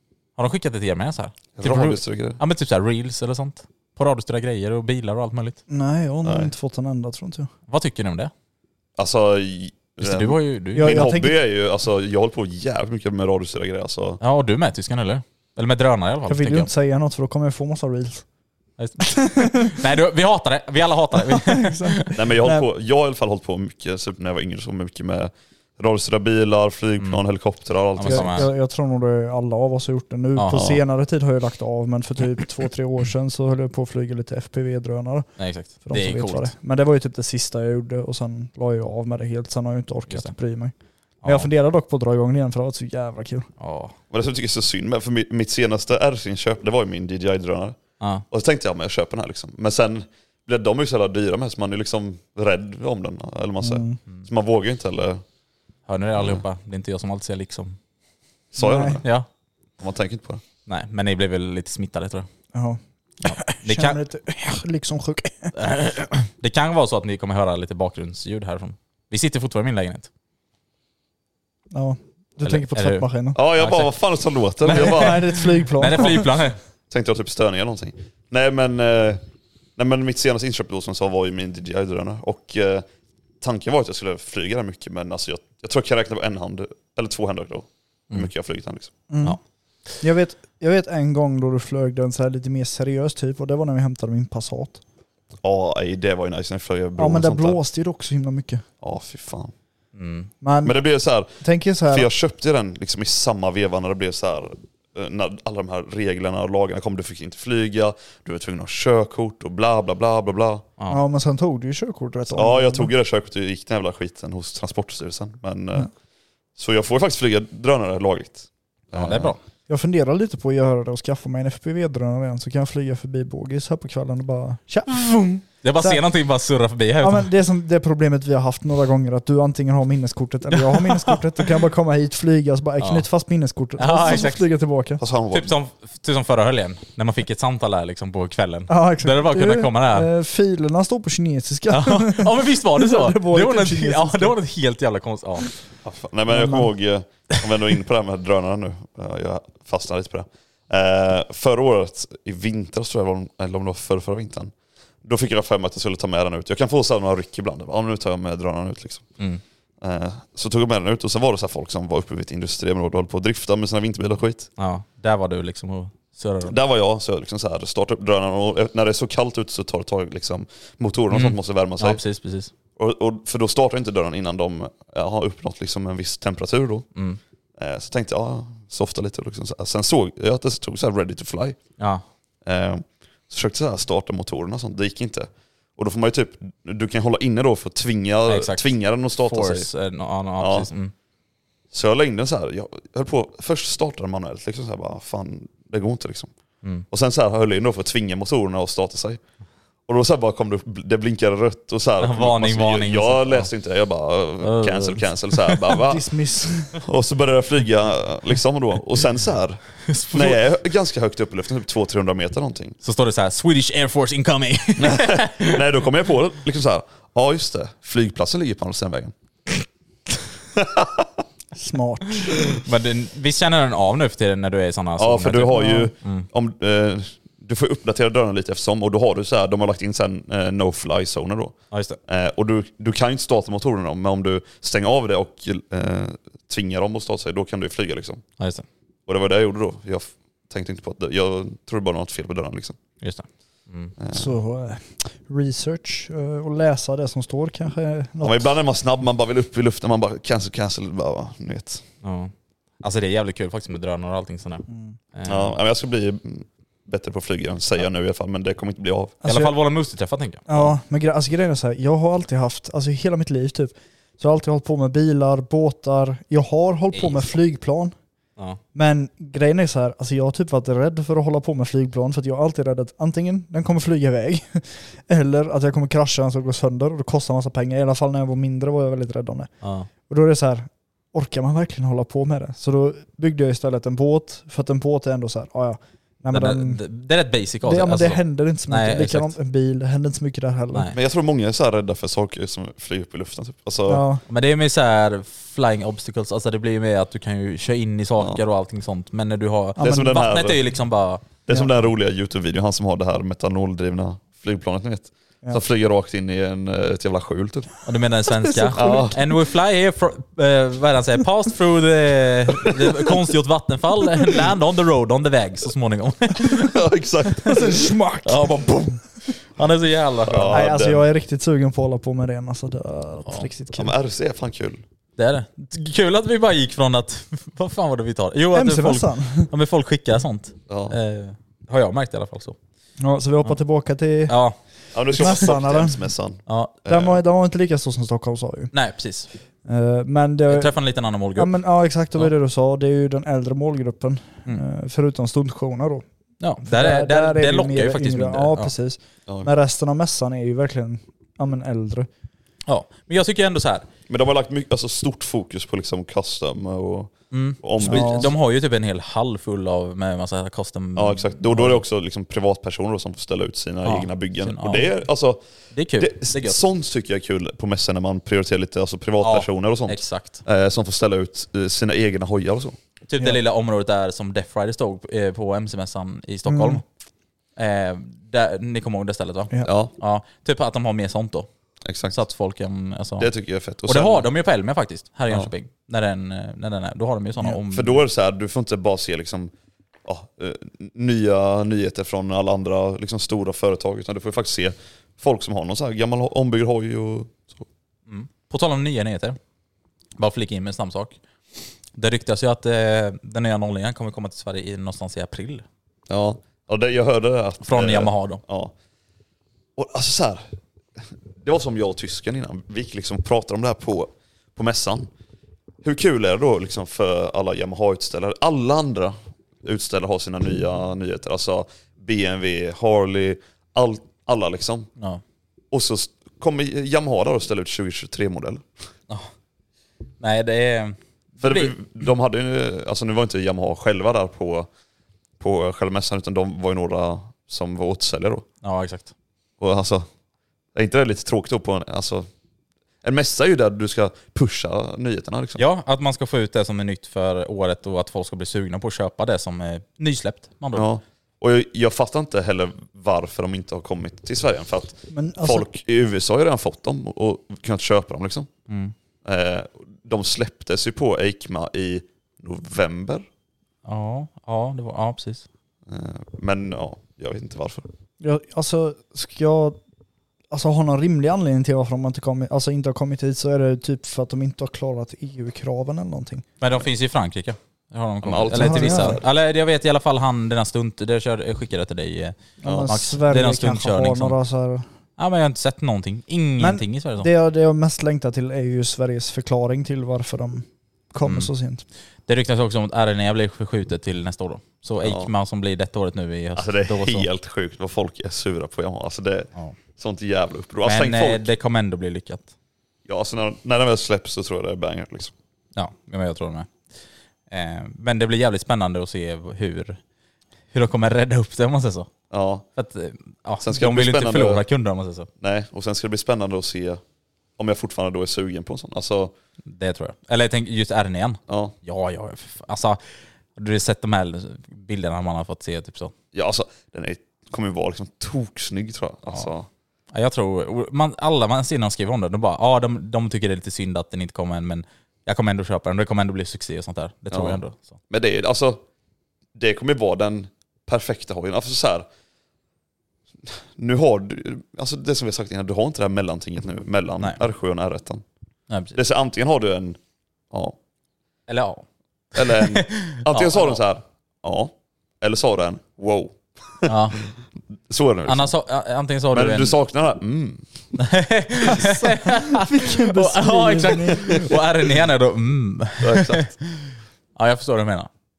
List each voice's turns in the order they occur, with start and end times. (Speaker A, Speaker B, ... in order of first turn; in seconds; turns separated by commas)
Speaker A: 0.4-5.6, Speaker B: 1.5-2.4, Speaker C: 5.7-7.5, Speaker B: 6.2-6.5, Speaker A: 7.7-8.3, Speaker B: 9.0-14.2, Speaker A: 10.0-11.1, Speaker C: 10.7-11.4, Speaker A: 14.2-16.7, Speaker C: 16.3-18.2, Speaker A: 18.8-22.1, Speaker C: 21.3-22.6, Speaker B: 22.1-28.4, Speaker A: 27.9-28.5, Speaker C: 28.1-40.7, Speaker A: 30.4-30.6, Speaker B: 30.5-30.8, Speaker A: 35.4-36.5, Speaker A: 40.1-40.4, Speaker A: 41.2-41.5, Speaker C: 41.2-43.5, Speaker A: 43.6-43.9, Speaker B: 44.1-55.2, Speaker A: 48.0-48.2, Speaker C: 53.6-54.0, Speaker A: 55.9-57.8, Speaker B: 56.1-56.4, Speaker B: 58.5-59.1, Speaker C: 58.6-59.0, Speaker B: 59.8-60.4, Speaker A: 60.6-62.3, Speaker C: 62.5-65.5, Speaker A: 63.2-64.0, Speaker A: 65.5-70.1, Speaker C: 71.7-73.4, Speaker A: 72.4-73.9, Speaker B: 73.3-75.2, Speaker C: 74.7-76.2, Speaker A: 74.7-75.2, Speaker A: 75.8-76.6, Speaker B: 76.9-79.2, Speaker B: 79.8-82.8, Speaker B: 83.4-88.9, Speaker C: 89.1-89.4, Speaker C: 90.0-94.8, Speaker B: 95.4-97.6, Speaker C: 97.0-98.6, Speaker B: 98.8-99.5, Speaker A: 99.9-100.3, Speaker C: 100.4-100.8, Speaker B: 100.6-110.7, Speaker C: 101.3-102.1, Speaker C: 110.9-112.9, Speaker B: 112.3-115.9, Speaker B: 116.5-119.3, Speaker A: 118.9-119.4, Speaker C: 119.7-126.0, Speaker A: 125.6-127.3, Speaker C: 127.0-135.0, Speaker A: 130.6-130.9, Speaker A: 132.8-133.1, Speaker A: 133.8-134.5, Speaker B: 135.0-135.6, Speaker A: 135.3-140.1, Speaker C: 138.7-144.3, Speaker A: 141.7-145.5, Speaker B: 145.8-154.5, Speaker C: 146.3-146.7, Speaker B: 155.0-159.2, Speaker B: 159.8-164.5, Speaker A: 164.6-166.6, Speaker B: 166.4-172.0, Speaker A: 171.1-172.5, Speaker B: 172.8-176.8, Speaker B: 177.6-181.6, Speaker B: 182.4-189.7, Speaker A: 188.3-190.9, Speaker B: 190.4-190.7, Speaker B: 191.7-196.3, Speaker B: 196.9-199.2, Speaker B: 199.9-206.1, Speaker A: 202.0-203.5, Speaker A: 204.4-205.7, Speaker C: 205.8-206.7, Speaker B: 206.7-212.8, Speaker A: 209.9-210.4, Speaker A: 212.8-215.6, Speaker B: 214.8-219.1, Speaker B: 220.6-221.1, Speaker C: 221.6-222.3, Speaker A: 222.6-226.3, Speaker B: 225.0-238.2, Speaker C: 225.5-225.9, Speaker A: 231.7-232.0, Speaker A: 238.4-238.6, Speaker B: 239.1-242.8, Speaker A: 243.0-243.9, Speaker B: 244.0-244.3, Speaker C: 244.1-248.4, Speaker B: 248.2-251.8, Speaker A: 252.0-255.5, Speaker C: 254.7-254.9, Speaker B: 255.2-259.2, Speaker C: 259.2-259.5, Speaker A: 259.2-260.4, Speaker C: 260.5-267.9, Speaker A: 266.9-267.4, Speaker C: 268.7-279.5, Speaker A: 279.6-279.9, Speaker C: 280.1-286.8, Speaker A: 286.3-289.3, Speaker C: 287.6-290.9, Speaker B: 290.9-294.0, Speaker C: 293.9-294.2, Speaker A: 294.3-301.2, Speaker B: 299.8-300.6, Speaker C: 299.8-300.1, Speaker B: 301.5-307.7, Speaker A: 307.9-316.7, Speaker C: 308.5-309.1, Speaker B: 308.7-309.2, Speaker B: 316.6-317.7, Speaker C: 317.4-318.5, Speaker A: 318.2-320.6, Speaker B: 320.2-321.1, Speaker C: 320.5-323.9, Speaker B: 323.7-324.8, Speaker A: 325.2-332.6, Speaker C: 328.5-329.5, Speaker B: 330.7-330.9, Speaker C: 333.0-334.4, Speaker A: 334.3-334.6, Speaker B: 334.9-337.2, Speaker C: 335.1-336.0, Speaker A: 336.5-336.7, Speaker C: 336.9-338.7, Speaker A: 338.7-339.3, Speaker C: 339.6-340.7, Speaker A: 340.5-341.6, Speaker C: 341.3-346.0, Speaker A: 346.4-348.7, Speaker C: 346.6-352.1, Speaker A: 352.7-353.9, Speaker B: 354.1-358.3, Speaker A: 357.3-361.8, Speaker C: 357.8-358.3, Speaker B: 360.9-365.4, Speaker A: 363.8-364.9, Speaker A: 365.7-366.6, Speaker B: 366.0-372.8, Speaker A: 369.2-370.4, Speaker A: 373.1-376.8, Speaker C: 376.5-376.8, Speaker A: 377.6-381.5, Speaker B: 379.6-379.9, Speaker B: 381.8-382.2, Speaker A: 382.1-383.3, Speaker B: 383.2-384.3, Speaker A: 383.9-388.0, Speaker B: 387.7-389.5, Speaker B: 390.0-397.6, Speaker A: 398.1-399.4, Speaker A: 400.2-401.2, Speaker A: 401.9-405.6, Speaker B: 406.1-408.7, Speaker A: 407.6-408.4, Speaker B: 409.8-410.5, Speaker B: 411.4-415.1, Speaker B: 415.8-424.9, Speaker B: 425.7-428.6, Speaker A: 430.2-431.7, Speaker B: 431.4-434.7, Speaker B: 435.4-438.4, Speaker A: 438.6-439.1, Speaker B: 439.6-440.1, Speaker B: 440.7-442.3, Speaker B: 443.0-445.6, Speaker A: 445.6-450.9, Speaker B: 450.7-458.5, Speaker C: 455.1-455.6, Speaker A: 458.7-458.9, Speaker B: 459.2-463.2, Speaker A: 463.8-465.4, Speaker B: 465.9-467.9, Speaker C: 468.2-469.8, Speaker C: 470.5-476.4, Speaker A: 476.6-484.4, Speaker B: 478.2-479.2, Speaker C: 478.5-479.2, Speaker C: 482.6-484.8, Speaker B: 482.6-482.9, Speaker A: 485.2-487.3, Speaker C: 486.6-491.8, Speaker A: 491.2-491.5, Speaker A: 492.3-497.3, Speaker B: 495.0-495.3, Speaker B: 496.5-501.5, Speaker A: 500.8-502.5, Speaker B: 503.1-505.3, Speaker A: 505.8-506.7, Speaker A: 507.5-510.0, Speaker A: 510.7-512.1, Speaker B: 512.3-512.7, Speaker A: 512.8-515.3, Speaker B: 513.6-514.6, Speaker B: 515.4-517.0, Speaker B: 517.6-519.3, Speaker A: 519.7-523.0, Speaker B: 521.5-521.7, Speaker A: 523.5-526.1, Speaker B: 526.3-529.7, Speaker A: 530.1-537.9, Speaker B: 537.3-538.8, Speaker B: 539.5-542.0, Speaker B: 543.5-548.2, Speaker A: 548.7-548.9, Speaker B: 548.9-550.0, Speaker B: 550.5-550.8, Speaker A: 551.5-553.8, Speaker B: 552.3-556.9, Speaker A: 556.9-557.2, Speaker B: 557.9-558.5, Speaker A: 558.3-559.7, Speaker B: 559.3-560.7, Speaker A: 561.0-566.7, Speaker C: 561.7-564.4, Speaker B: 566.0-566.5, Speaker A: 567.4-568.1